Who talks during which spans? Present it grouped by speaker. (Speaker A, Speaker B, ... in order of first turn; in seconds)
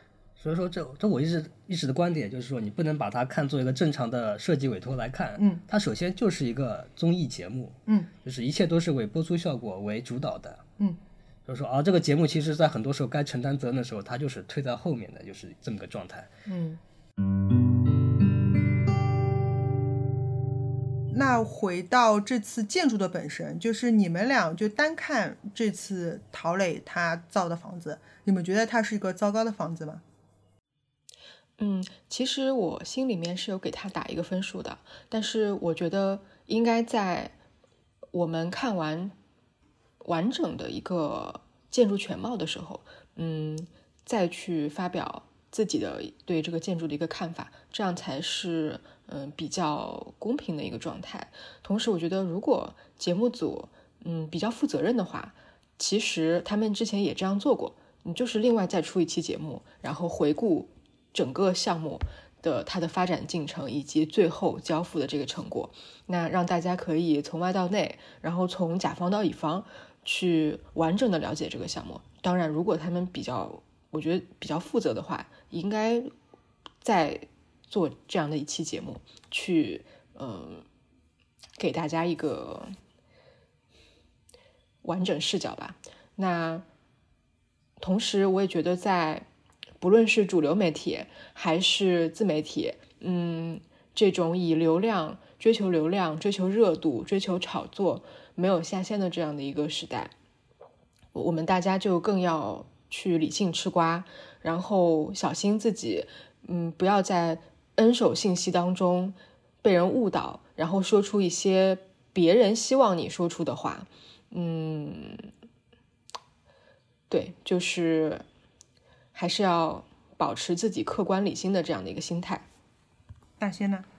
Speaker A: 0.4-10.6, 11.4-16.3
Speaker B: 5.4-5.6, 16.5-16.8, 21.1-30.0, 123.4-123.9
Speaker C: 31.6-37.3, 38.1-39.1, 40.0-76.1, 76.8-80.7, 81.6-82.8, 84.8-86.7, 87.8-89.3, 89.8-100.1, 101.1-115.3, 117.1-118.2, 119.1-122.4